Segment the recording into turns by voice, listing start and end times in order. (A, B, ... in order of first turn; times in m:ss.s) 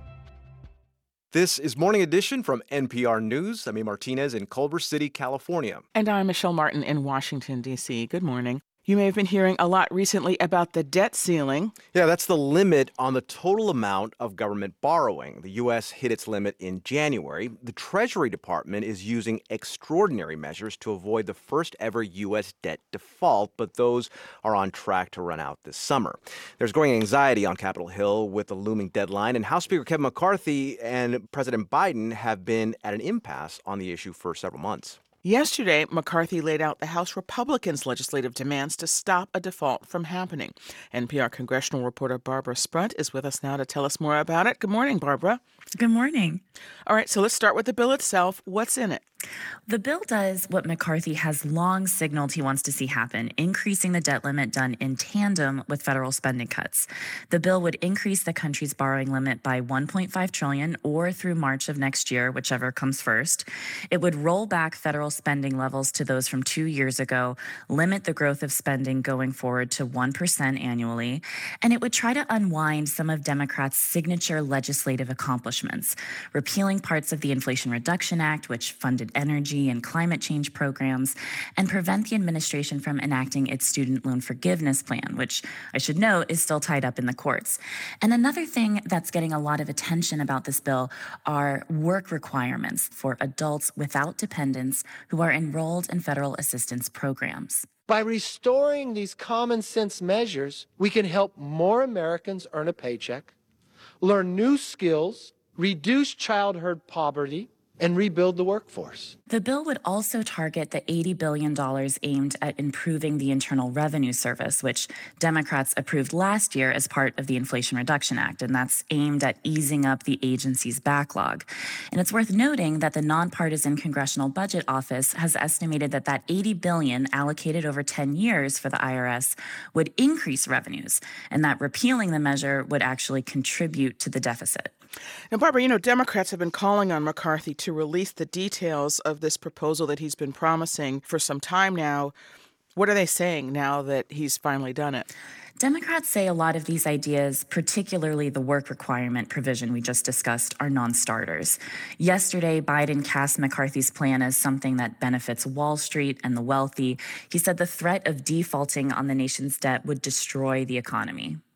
0:01.3-0:05.8 A
0:06.0-0:11.7 B
0:11.9-0:35.0 A
0:35.2-0:45.4 B
0:45.8-0:46.4 C
0:46.9-0:49.0 B
0:49.7-1:37.7 C
1:37.9-1:43.3 D
1:44.0-1:49.1 D
1:49.3-2:14.7 C
2:15.3-2:22.1 B
2:22.8-2:25.1 B
2:25.6-2:41.4 C